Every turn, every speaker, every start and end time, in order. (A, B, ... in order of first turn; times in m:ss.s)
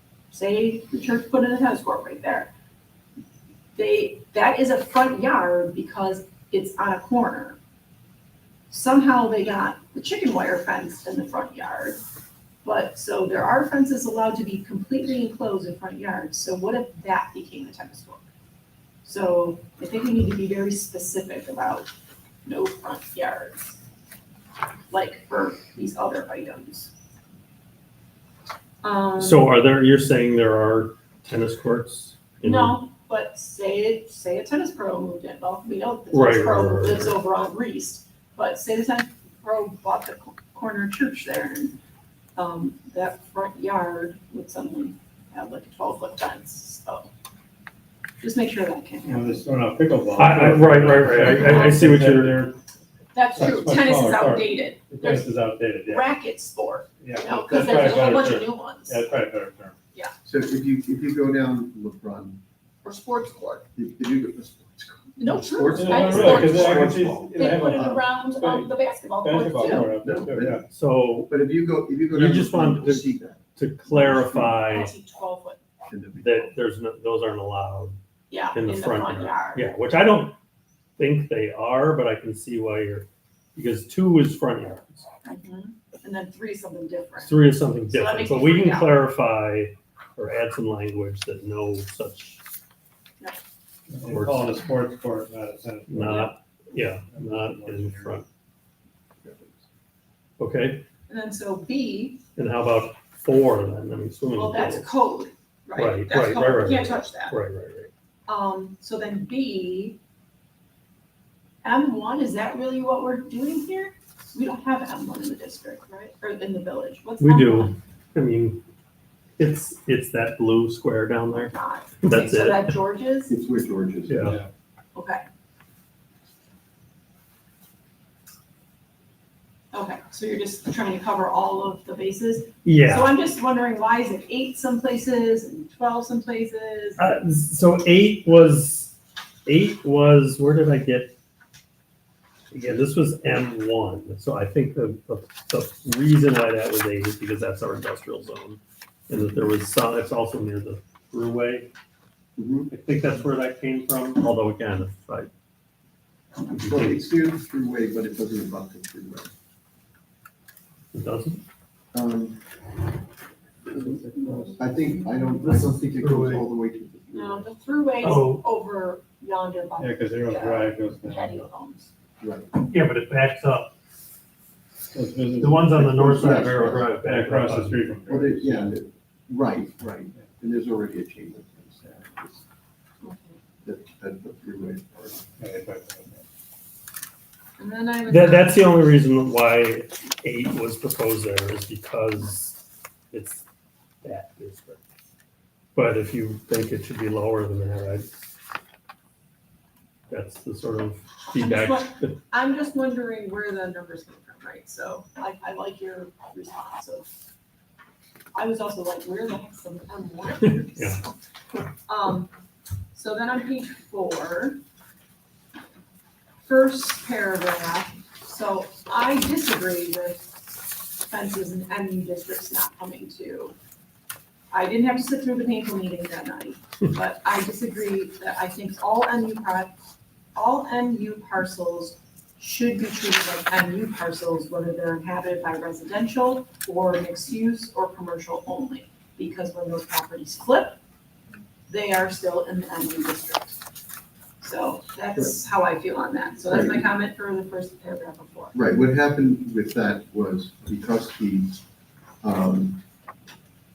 0:00.3-0:02.5 A
0:03.8-0:07.6 A
0:08.7-0:12.0 A
0:12.6-0:18.2 A
0:19.0-0:21.9 A
0:22.4-0:23.8 A
0:24.9-0:26.9 A
0:28.8-0:29.5 A
0:29.2-0:32.8 B
0:32.4-0:41.8 A
0:36.1-0:37.2 B
0:42.4-0:47.1 A
0:48.2-0:49.4 A
0:49.1-0:52.6 C
0:50.2-0:52.6 B
0:51.2-0:51.9 A
0:53.1-0:55.3 A
0:53.3-0:56.0 C
0:55.9-0:59.0 A
0:57.0-0:59.8 C
0:57.5-0:58.0 D
1:00.2-1:02.4 D
1:02.8-1:03.6 A
1:03.8-1:08.0 D
1:05.2-1:10.0 A
1:05.7-1:10.6 C
1:09.6-1:10.6 D
1:10.7-1:11.3 B
1:11.3-1:14.6 D
1:12.1-1:14.9 B
1:14.7-1:15.6 A
1:15.9-1:16.5 D
1:16.2-1:18.0 B
1:18.3-1:19.6 A
1:18.5-1:20.4 B
1:21.0-1:25.1 B
1:25.2-1:29.0 A
1:27.2-1:32.4 B
1:33.9-1:36.3 C
1:34.0-1:34.6 B
1:35.9-1:38.2 B
1:37.1-1:38.2 C
1:39.2-1:39.6 D
1:40.4-1:40.8 B
1:41.1-1:42.2 A
1:42.4-1:44.9 B
1:44.3-1:47.4 A
1:45.8-1:47.9 B
1:48.3-1:50.0 A
1:51.6-1:57.8 A
1:57.2-1:58.6 B
1:59.4-2:02.8 B
2:01.5-2:03.3 A
2:03.3-2:04.4 D
2:04.1-2:04.4 B
2:04.2-2:04.5 C
2:04.9-2:05.2 A
2:09.7-2:17.0 A
2:12.6-2:13.1 B
2:17.0-2:18.9 B
2:19.4-2:21.1 B
2:22.5-2:31.7 B
2:29.1-2:29.4 D
2:32.4-2:32.7 D
2:32.7-2:35.3 B
2:36.5-2:37.0 B
2:36.5-2:39.3 D
2:40.9-2:41.4 B
2:41.9-2:42.4 D
2:43.7-2:44.0 D
2:43.8-2:44.8 C
2:44.6-2:47.5 D
2:45.4-2:46.5 B
2:47.1-2:51.9 A
2:48.0-2:48.4 B
2:49.8-2:51.4 C
2:52.2-2:52.5 D
2:52.6-2:53.7 B
2:54.9-2:58.7 C
2:55.4-2:57.9 B
2:55.8-2:56.9 D
2:58.1-3:02.4 D
3:03.0-3:03.4 A
3:03.6-3:05.2 D
3:05.4-3:06.2 C
3:07.6-3:08.7 A
3:08.1-3:12.6 B
3:13.1-3:13.4 B
3:14.0-3:14.8 B
3:15.7-3:18.1 B
3:20.1-3:22.2 B
3:21.3-3:27.1 A
3:28.3-3:31.1 A
3:30.4-3:31.0 B
3:31.8-3:32.3 A
3:32.9-3:34.6 A
3:36.4-3:40.2 A
3:41.0-3:43.6 A
3:44.5-3:49.7 A
3:50.3-4:00.8 A
4:01.7-4:03.6 A
4:04.4-4:08.6 A
4:06.5-4:06.8 D
4:08.5-4:11.6 D
4:12.2-4:12.8 D